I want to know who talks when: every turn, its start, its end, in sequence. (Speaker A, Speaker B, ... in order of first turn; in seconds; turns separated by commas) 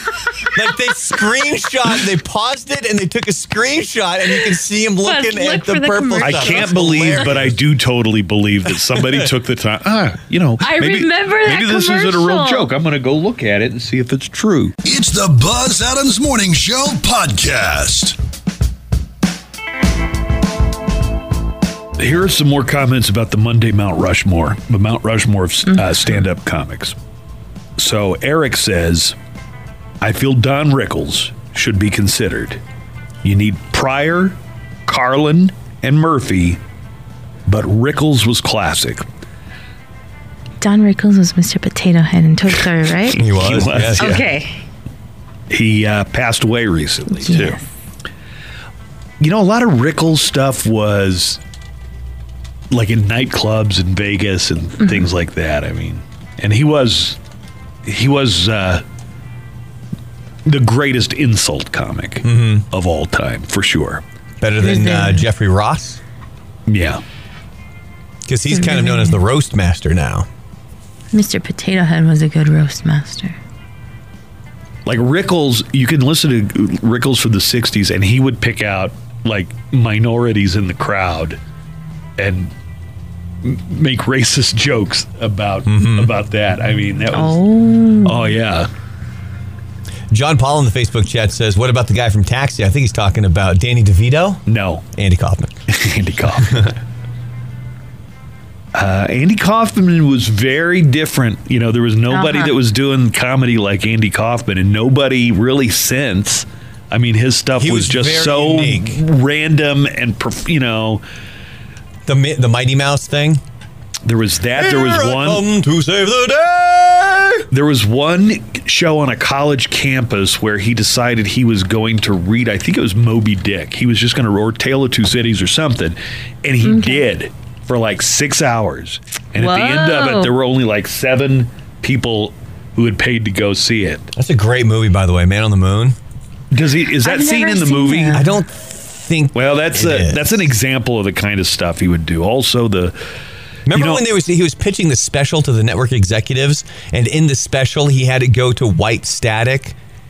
Speaker A: 0.6-7.6, Speaker B: 5.0-7.2, Speaker C: 6.2-14.8, Speaker B: 10.6-12.7, Speaker D: 14.8-18.2, Speaker C: 22.0-26.9, Speaker C: 27.8-29.2, Speaker C: 30.0-32.6, Speaker C: 33.2-36.6, Speaker C: 37.5-39.0, Speaker B: 40.6-43.2, Speaker A: 43.2-44.2, Speaker C: 43.2-44.2, Speaker B: 44.0-44.6, Speaker C: 45.5-47.6, Speaker B: 47.1-47.6, Speaker C: 49.2-51.4, Speaker C: 52.7-57.2, Speaker C: 57.9-58.8, Speaker C: 60.5-64.0, Speaker A: 62.2-62.7, Speaker A: 64.4-66.0, Speaker B: 64.6-65.2, Speaker C: 66.7-67.0, Speaker A: 68.3-70.3, Speaker B: 68.5-69.2, Speaker B: 71.1-73.4, Speaker C: 74.9-81.4, Speaker C: 82.2-82.5, Speaker C: 83.4-87.4, Speaker A: 85.7-86.1, Speaker B: 87.1-88.3, Speaker C: 88.0-88.7, Speaker A: 90.1-94.4, Speaker C: 94.5-94.8, Speaker A: 94.9-95.5, Speaker C: 95.7-96.7, Speaker C: 98.7-111.0, Speaker B: 102.1-102.6, Speaker A: 107.6-109.0, Speaker A: 112.1-113.4, Speaker C: 114.0-115.5, Speaker A: 114.6-117.5, Speaker C: 117.5-134.1, Speaker B: 126.6-127.1, Speaker B: 129.4-130.3, Speaker A: 134.2-136.0, Speaker C: 136.5-138.3, Speaker B: 137.0-138.3, Speaker A: 138.1-140.4, Speaker C: 139.3-142.9, Speaker A: 143.7-149.8, Speaker C: 143.7-144.0